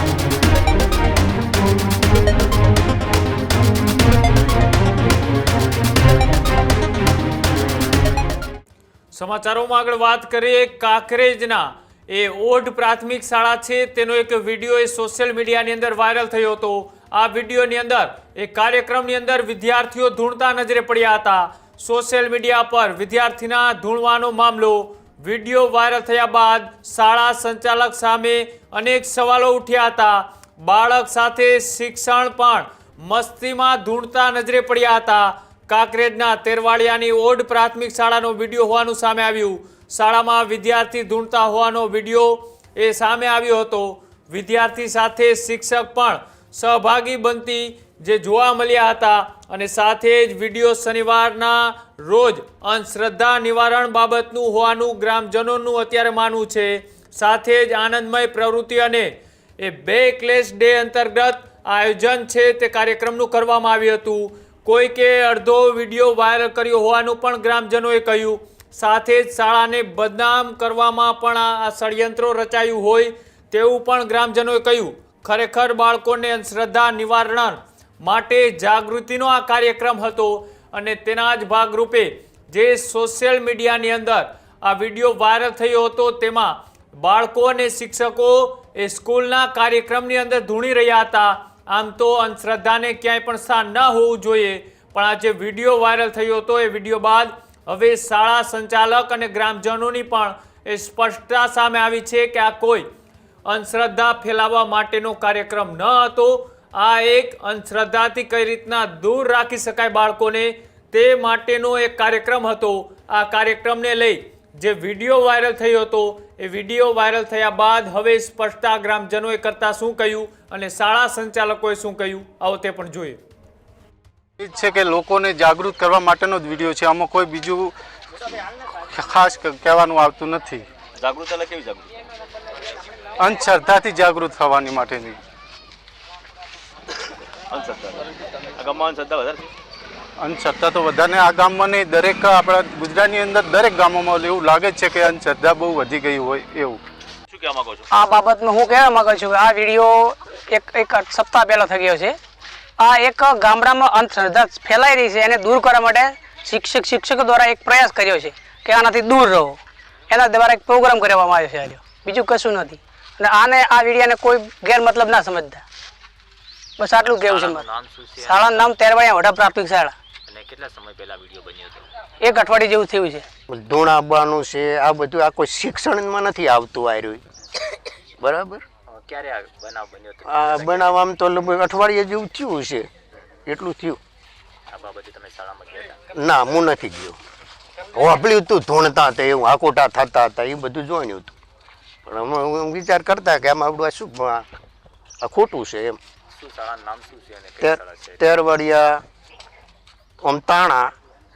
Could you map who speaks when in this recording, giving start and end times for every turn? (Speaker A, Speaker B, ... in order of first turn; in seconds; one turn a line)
Speaker A: 9.1-102.9
Speaker A: 103.5-123.2
Speaker B: 124.4-127.7
Speaker B: 128.8-130.7
Speaker C: 131.0-131.9
Speaker B: 133.2-135.2
Speaker C: 137.5-138.0
Speaker C: 138.6-139.4
Speaker B: 140.2-146.8
Speaker C: 147.3-147.8
Speaker D: 147.9-152.2
Speaker D: 152.8-165.6
Speaker D: 166.8-167.7
Speaker E: 167.0-168.8
Speaker D: 168.2-169.9
Speaker E: 170.3-171.8
Speaker D: 172.2-173.2
Speaker F: 173.5-177.2
Speaker F: 178.2-178.6
Speaker E: 178.9-180.9
Speaker F: 180.3-182.9
Speaker F: 183.5-184.0
Speaker E: 184.7-186.1
Speaker F: 186.1-187.2
Speaker F: 187.9-191.3
Speaker F: 192.1-194.5
Speaker F: 195.2-196.0
Speaker E: 196.3-198.3
Speaker F: 197.6-199.0
Speaker F: 200.2-200.9